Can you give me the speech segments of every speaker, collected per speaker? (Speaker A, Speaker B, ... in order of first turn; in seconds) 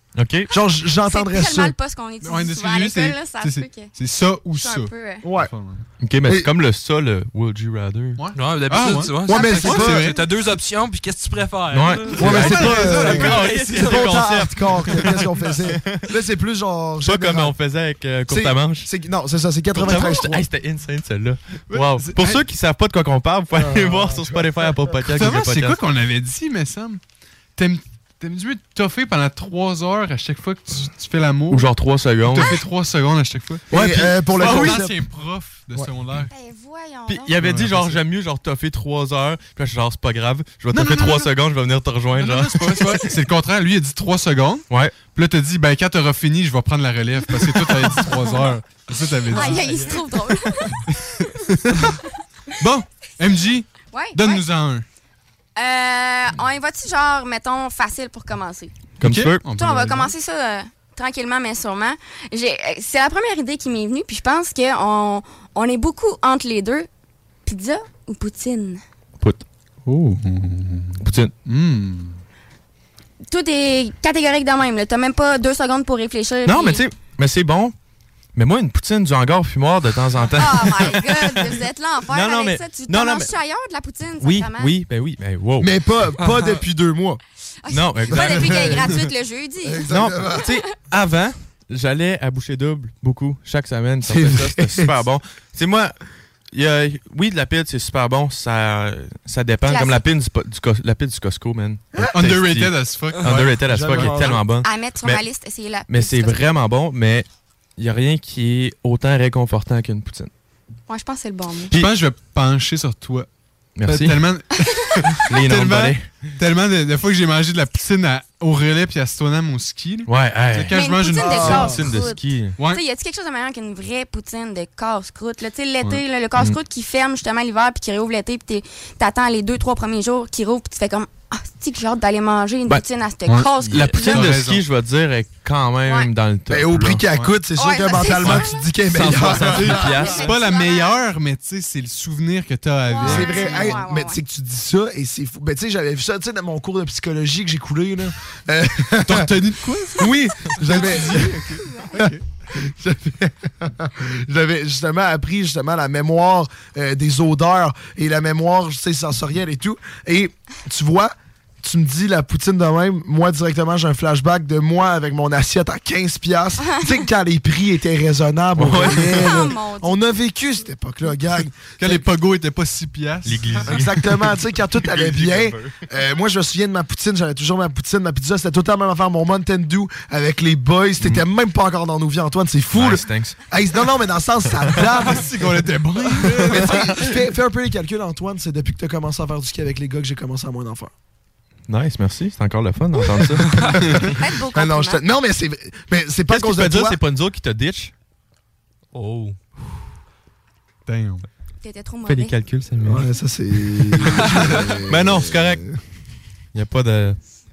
Speaker A: 0.1-0.5, 6.0-8.2, 11.7-16.0, 17.0-18.9, 19.7-25.8, 31.5-32.6, 34.5-34.7, 37.1-43.0, 44.7-45.0, 59.0-59.4, 71.0-71.3, 76.5-77.7, 78.3-83.3, 84.2-85.7, 87.7-88.8, 89.9-95.9, 96.5-105.2, 105.9-107.2, 107.8-110.3, 113.8-114.2, 115.2-116.2, 120.1-122.5, 133.7-137.0, 138.9-140.3, 168.6-169.3, 173.2-174.0, 174.9-175.8, 182.7-183.4, 191.7-193.7, 196.3-197.9, 202.1-203.1, 203.9-204.3, 204.9-205.7, 206.5-207.2
Speaker B: 0.5-1.7, 5.2-5.5, 9.3-10.1, 12.2-17.5, 18.3-20.4, 21.8-22.4, 23.5-24.5, 33.7-35.0, 85.6-87.2, 88.2-88.4, 89.6-90.5, 94.0-94.9, 103.7-104.4, 121.2-121.8, 136.5-140.1, 143.0-149.3, 149.9-151.3, 151.9-172.0, 173.7-185.5, 186.1-190.9, 194.5-197.0, 202.8-205.7
Speaker C: 1.1-3.9, 4.5-5.2, 36.3-37.4, 49.3-50.8, 53.9-54.4, 55.5-58.7, 59.5-66.9, 67.4-68.8, 73.3-76.8, 80.3-84.7, 87.6-89.9, 99.7-100.0, 104.6-106.5, 110.9-111.7, 120.7-134.3, 137.6-138.6, 139.6-141.0, 142.8-144.2, 166.7-167.0, 168.8-169.9, 194.2-195.0, 201.6-202.3
Speaker D: 2.2-5.8, 8.2-10.3, 12.2-13.6, 14.8-15.4, 25.1-27.0, 27.6-31.7, 32.2-36.3, 37.4-38.0, 40.7-41.3, 42.2-50.0, 50.9-51.9, 52.6-54.8, 59.0-60.1, 69.8-72.2, 88.6-88.9, 102.1-104.3, 111.7-113.3, 113.8-121.8, 122.6-122.8, 133.3-134.6, 140.2-143.8, 149.0-152.2, 171.8-173.9, 184.8-187.1, 193.8-194.1, 200.8-201.2
Speaker E: 8.3-14.2, 86.2-86.5, 198.9-199.3